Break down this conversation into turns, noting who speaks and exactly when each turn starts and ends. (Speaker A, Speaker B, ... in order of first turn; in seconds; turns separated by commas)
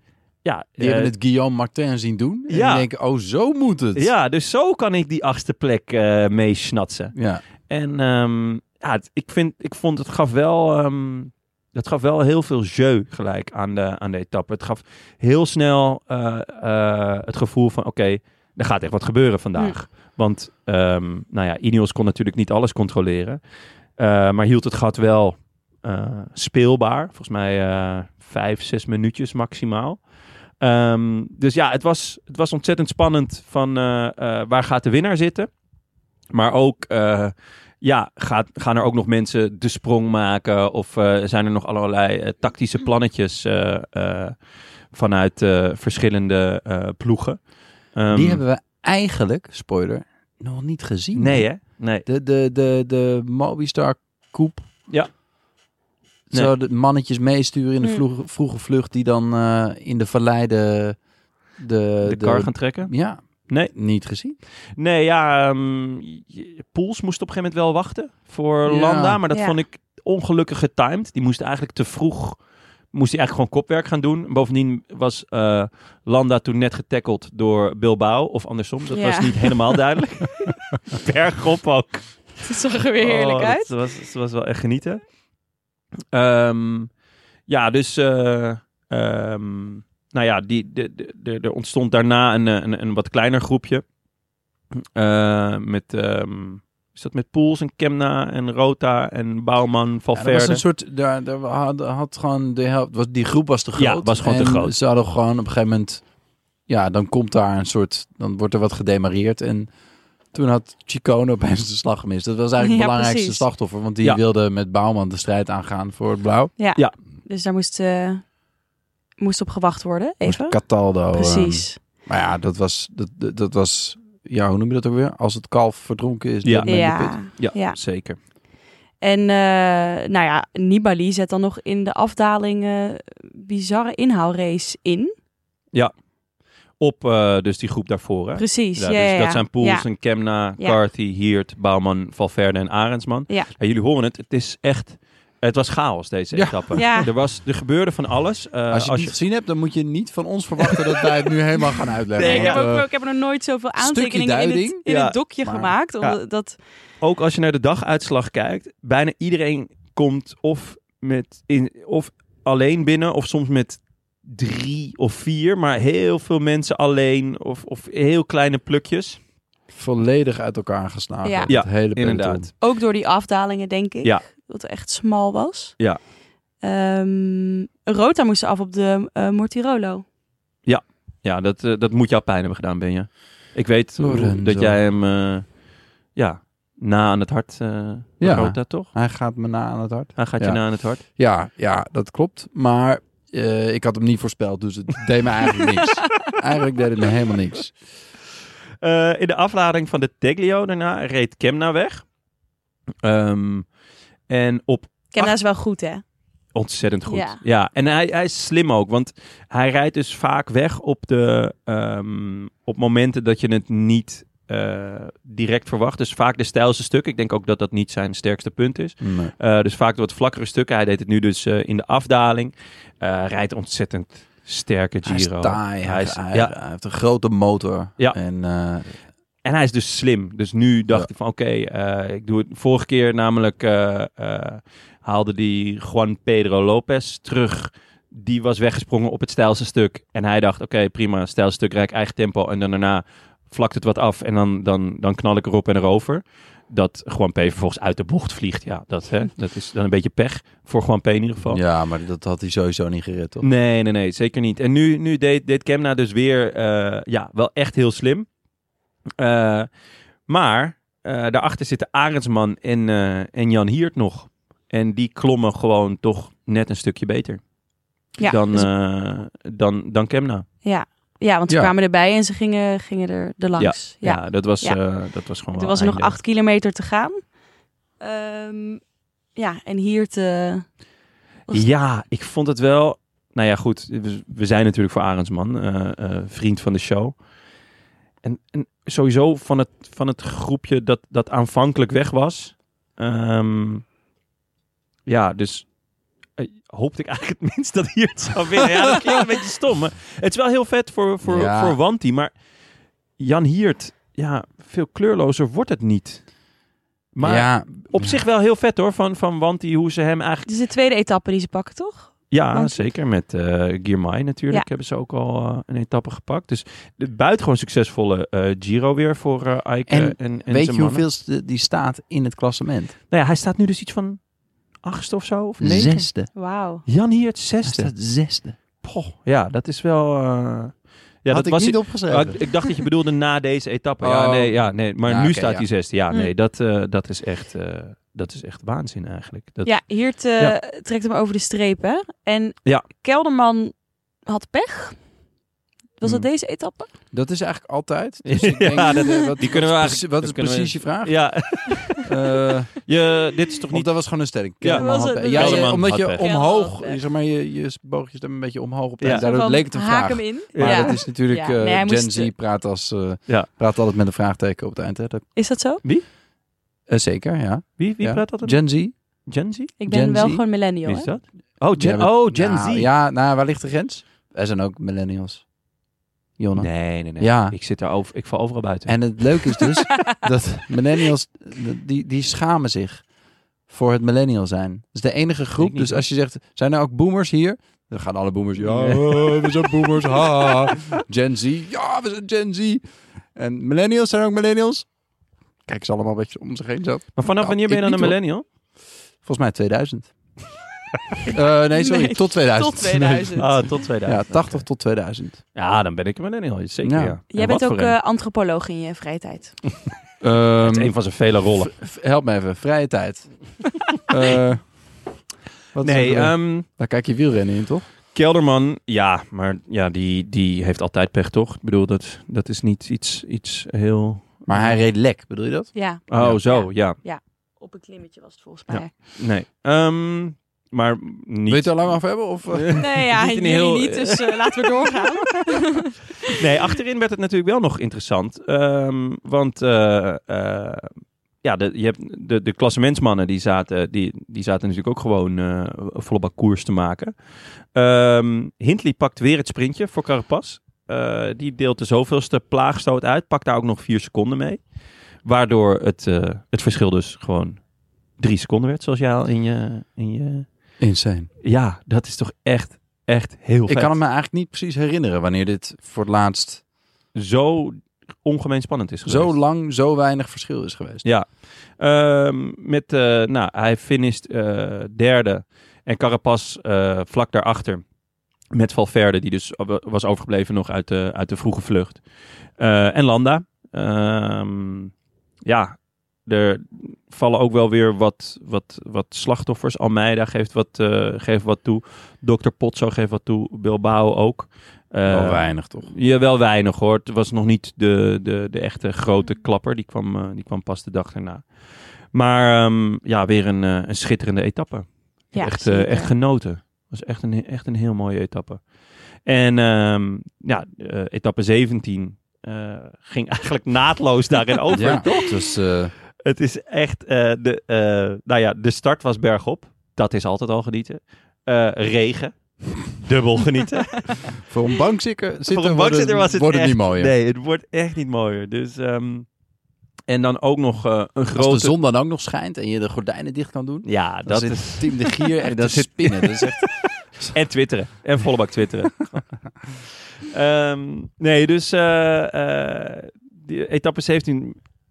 Speaker A: 0.4-1.1, Speaker B: 0.8-4.1, Speaker A: 2.5-2.9, Speaker A: 3.9-7.1, Speaker B: 7.1-7.4, Speaker A: 7.7-23.4, Speaker A: 24.0-30.0, Speaker A: 30.6-35.5, Speaker A: 36.3-44.4, Speaker A: 44.9-47.4, Speaker A: 47.9-48.4, Speaker B: 48.1-54.7, Speaker A: 51.1-52.0, Speaker B: 56.3-61.0, Speaker B: 61.6-64.4, Speaker A: 62.0-62.9, Speaker A: 64.8-72.4, Speaker B: 68.7-69.2, Speaker C: 69.3-69.6, Speaker A: 72.9-82.4, Speaker C: 78.9-79.8, Speaker C: 82.4-83.7, Speaker A: 83.0-85.0, Speaker A: 86.1-86.9, Speaker A: 87.5-93.8, Speaker A: 94.7-100.6, Speaker B: 100.1-106.0, Speaker A: 103.8-104.7, Speaker B: 106.7-109.7, Speaker B: 110.3-116.5, Speaker C: 112.6-113.5, Speaker C: 116.6-118.2, Speaker C: 119.2-121.8, Speaker B: 120.2-127.2, Speaker A: 126.4-128.2, Speaker C: 126.7-127.8, Speaker C: 129.0-135.1, Speaker A: 136.8-149.2, Speaker C: 138.4-139.9, Speaker B: 146.3-146.8, Speaker C: 146.8-147.1, Speaker B: 148.7-152.9, Speaker A: 152.2-152.7, Speaker C: 152.2-156.6, Speaker B: 153.8-154.8, Speaker A: 154.8-155.2, Speaker B: 155.4-155.7, Speaker A: 157.0-169.2, Speaker B: 169.7-172.5, Speaker C: 171.2-171.5, Speaker A: 171.5-172.5, Speaker C: 172.6-175.8, Speaker C: 176.6-180.0, Speaker A: 180.7-185.4, Speaker B: 184.0-184.8, Speaker A: 186.1-188.9, Speaker B: 188.2-197.7, Speaker A: 190.2-191.0, Speaker A: 198.8-202.0, Speaker A: 203.0-203.7, Speaker A: 204.3-205.3, Speaker C: 205.1-206.0, Speaker A: 206.5-226.5, Speaker C: 207.1-207.4, Speaker B: 219.0-219.3, Speaker B: 225.0-228.9, Speaker A: 229.4-251.6, Speaker B: 251.5-253.5, Speaker A: 253.4-258.3, Speaker A: 259.2-259.7, Speaker A: 260.3-267.4, Speaker C: 268.2-268.7, Speaker A: 268.2-270.5, Speaker C: 270.6-274.8, Speaker A: 273.6-276.2, Speaker C: 275.5-277.2, Speaker C: 278.0-278.8, Speaker C: 279.4-280.7, Speaker A: 281.5-287.1, Speaker A: 288.2-293.8, Speaker A: 295.1-295.7, Speaker A: 296.4-302.3, Speaker B: 301.2-301.8, Speaker A: 303.2-306.3, Speaker A: 307.1-310.5, Speaker B: 307.2-308.2, Speaker C: 310.4-312.8, Speaker A: 312.3-321.0, Speaker B: 319.9-322.9, Speaker A: 323.1-324.2, Speaker A: 324.8-327.9, Speaker B: 325.6-326.3, Speaker C: 326.3-326.8, Speaker B: 327.6-328.6, Speaker A: 328.8-339.8, Speaker B: 331.3-332.4, Speaker B: 334.0-335.7, Speaker C: 339.6-345.0, Speaker C: 346.0-346.9, Speaker B: 347.1-352.8, Speaker A: 348.2-352.1, Speaker A: 352.8-356.3, Speaker B: 353.7-365.2, Speaker C: 354.7-357.0, Speaker A: 359.0-359.3, Speaker C: 359.1-362.3, Speaker A: 360.5-361.0, Speaker C: 365.4-365.8, Speaker B: 366.9-368.9, Speaker A: 367.8-368.8, Speaker A: 369.3-369.7, Speaker C: 369.8-371.1, Speaker B: 369.8-370.4, Speaker A: 370.8-372.9, Speaker B: 371.8-375.4, Speaker B: 376.4-377.6, Speaker A: 376.6-379.0, Speaker B: 378.9-383.0, Speaker B: 383.7-392.8, Speaker A: 385.6-386.0, Speaker A: 388.6-390.8, Speaker B: 393.3-394.9, Speaker B: 395.7-398.2, Speaker A: 397.1-398.4, Speaker B: 399.2-400.1, Speaker B: 401.3-405.4, Speaker C: 401.7-403.5, Speaker A: 403.4-404.6, Speaker A: 405.5-407.9, Speaker B: 406.8-407.2, Speaker C: 407.3-409.6, Speaker B: 410.2-410.9, Speaker A: 410.6-411.7, Speaker B: 411.6-413.3, Speaker B: 414.1-414.7, Speaker B: 415.7-417.9, Speaker A: 415.8-416.6, Speaker A: 418.1-424.8, Speaker B: 424.5-426.4, Speaker C: 425.7-428.9, Speaker A: 426.1-427.0, Speaker A: 428.7-435.1, Speaker B: 431.5-432.8, Speaker C: 432.8-436.4, Speaker A: 436.3-447.1, Speaker A: 447.7-454.6, Speaker A: 455.2-457.6, Speaker A: 458.2-460.5, Speaker B: 460.8-461.3, Speaker A: 461.4-463.9, Speaker B: 463.7-466.6, Speaker A: 467.1-469.3, Speaker B: 469.0-471.0, Speaker A: 471.0-477.8, Speaker A: 478.5-482.0, Speaker A: 482.6-484.9, Speaker A: 485.4-501.5, Speaker B: 495.1-495.9, Speaker A: 502.1-508.6, Speaker C: 505.3-506.1, Speaker A: 509.2-515.5, Speaker B: 514.7-515.9, Speaker A: 516.2-524.4, Speaker B: 524.4-527.1, Speaker A: 525.5-529.3, Speaker A: 530.1-531.7, Speaker B: 531.3-536.6, Speaker A: 533.8-539.1, Speaker A: 540.3-544.6